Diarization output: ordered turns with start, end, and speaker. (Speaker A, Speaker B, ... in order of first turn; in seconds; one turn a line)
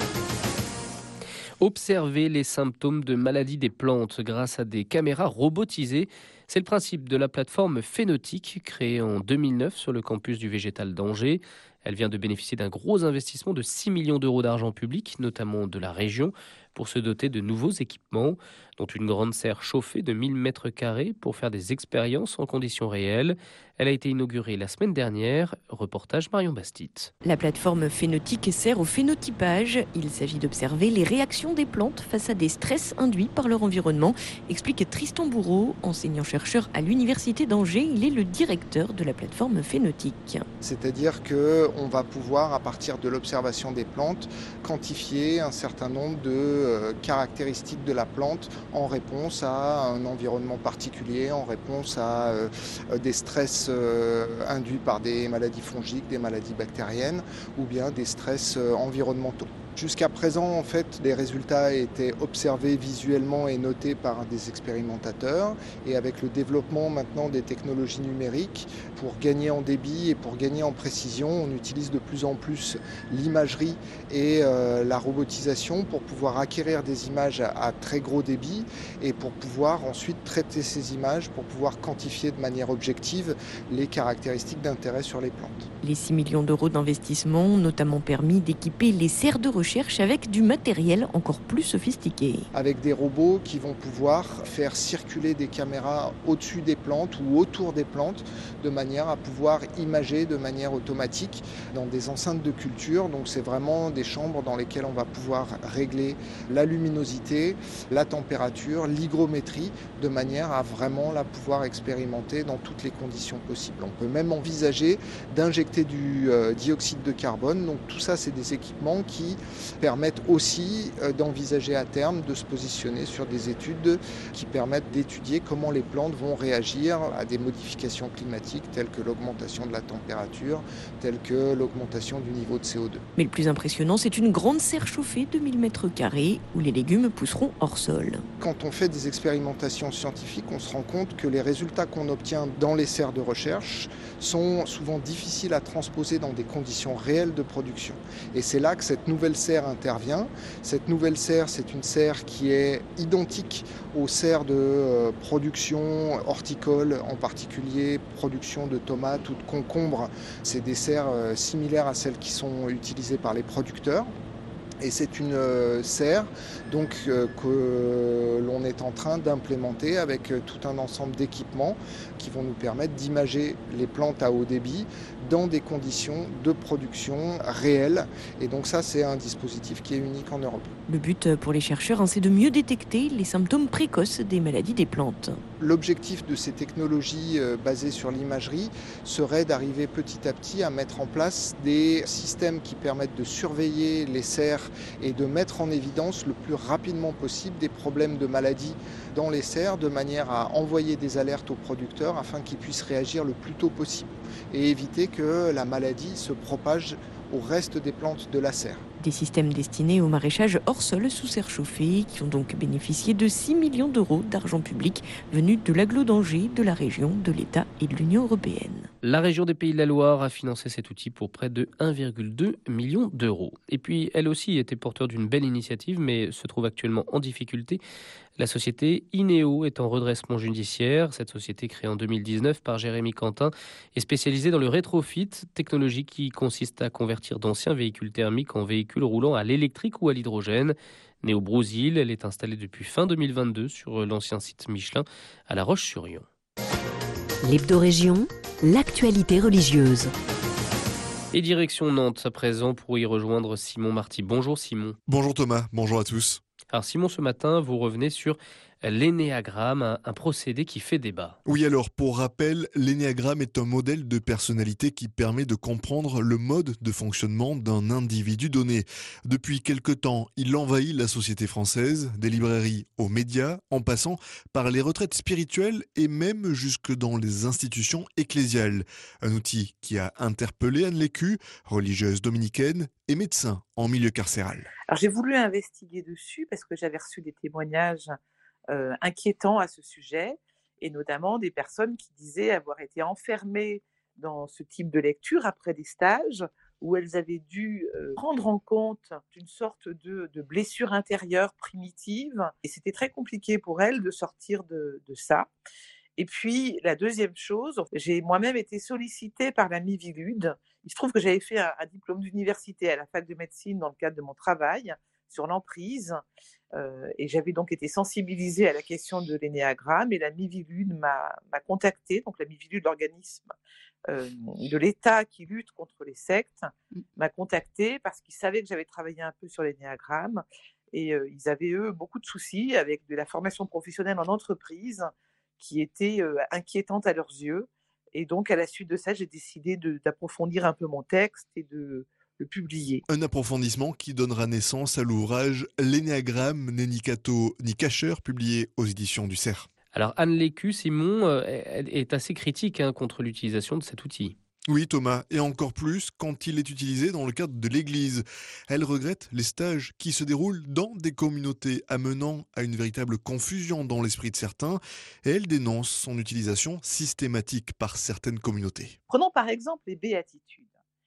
Speaker A: 1.6-27.1
Speaker B: 27.2-40.5
Speaker C: 40.6-85.7
Speaker B: 85.8-92.5
Speaker C: 92.5-133.0
Speaker B: 133.2-138.2
Speaker C: 138.4-164.1
Speaker C: 164.8-180.8
Speaker B: 180.9-185.4
Speaker C: 185.6-208.9
Speaker B: 209.0-218.9
Speaker A: 219.0-227.8
Speaker A: 228.4-246.3
Speaker B: 247.4-250.1
Speaker A: 251.3-255.0
Speaker D: 255.1-256.4
Speaker A: 256.7-261.4
Speaker D: 261.5-284.7
Speaker E: 284.9-288.1
Speaker E: 288.7-305.5
Speaker E: 306.2-316.2
Speaker E: 316.8-323.5
Speaker E: 324.1-343.0
Speaker D: 343.1-349.7
Speaker A: 349.9-354.4
Speaker D: 354.7-369.0
Speaker E: 369.1-370.7